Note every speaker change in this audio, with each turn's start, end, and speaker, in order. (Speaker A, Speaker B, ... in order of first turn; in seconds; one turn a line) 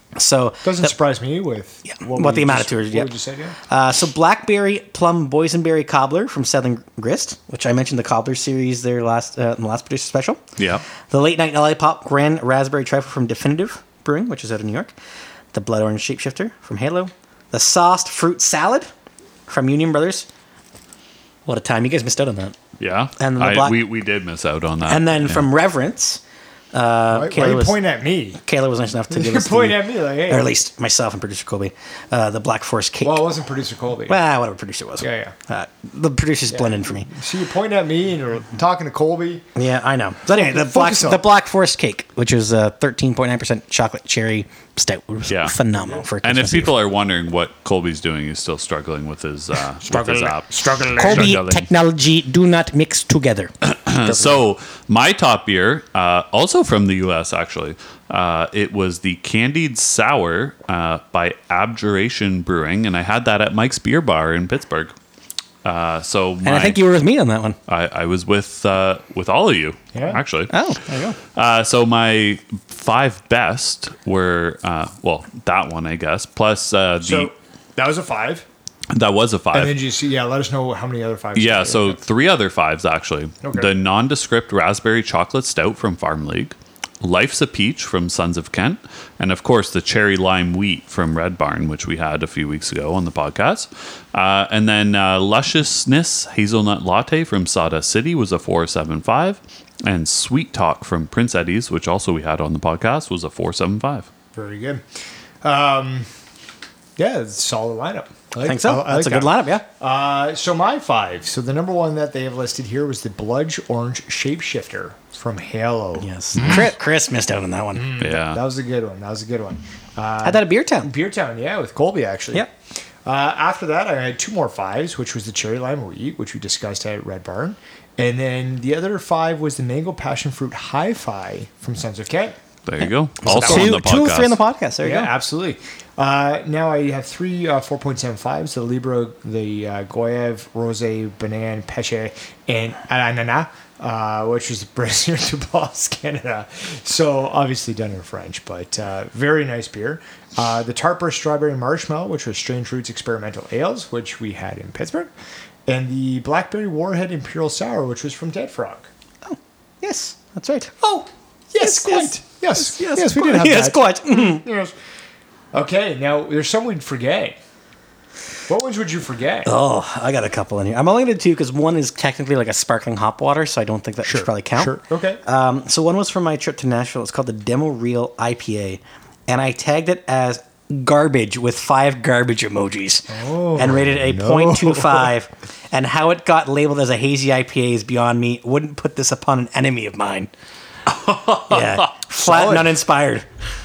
Speaker A: 0.1-0.9
Speaker B: 0.6-3.6
Speaker A: 1.9-3.1
Speaker A: 3.7-10.4
Speaker C: 10.6-10.8
Speaker A: 11.1-14.9
Speaker A: 15.5-18.9
Speaker A: 19.5-20.3
Speaker A: 21.4-22.6
Speaker C: 22.8-25.5
Speaker A: 23.2-23.8
Speaker A: 24.9-26.2
Speaker A: 26.7-27.8
Speaker B: 27.1-28.4
Speaker A: 28.4-33.2
Speaker B: 29.1-30.5
Speaker B: 33.0-34.2
Speaker A: 34.1-37.1
Speaker B: 35.0-35.3
Speaker B: 36.5-39.5
Speaker A: 39.5-46.7
Speaker B: 40.3-41.2
Speaker C: 45.3-45.5
Speaker C: 46.2-51.4
Speaker B: 49.8-51.7
Speaker A: 51.0-54.4
Speaker C: 53.6-64.9
Speaker C: 65.6-66.8
Speaker A: 66.4-67.6
Speaker C: 67.7-70.5
Speaker B: 69.9-70.2
Speaker A: 70.5-71.2
Speaker C: 71.3-77.3
Speaker B: 77.0-78.5
Speaker C: 78.9-79.8
Speaker B: 79.5-82.0
Speaker C: 81.3-104.1
Speaker B: 83.4-83.7
Speaker B: 104.3-104.8
Speaker B: 105.4-106.1
Speaker B: 107.0-116.7
Speaker A: 108.4-109.6
Speaker A: 116.0-117.9
Speaker B: 117.7-122.5
Speaker C: 118.0-118.4
Speaker A: 120.2-120.9
Speaker B: 123.0-132.4
Speaker C: 132.7-134.4
Speaker A: 132.8-135.1
Speaker B: 133.2-133.8
Speaker B: 134.8-155.1
Speaker B: 155.7-158.9
Speaker A: 159.2-161.0
Speaker B: 161.0-164.7
Speaker A: 161.6-164.4
Speaker B: 165.5-167.4
Speaker B: 168.5-169.5
Speaker A: 169.4-190.3
Speaker B: 174.0-175.2
Speaker B: 183.1-185.1
Speaker C: 190.9-191.8
Speaker A: 191.5-193.2
Speaker B: 192.2-192.8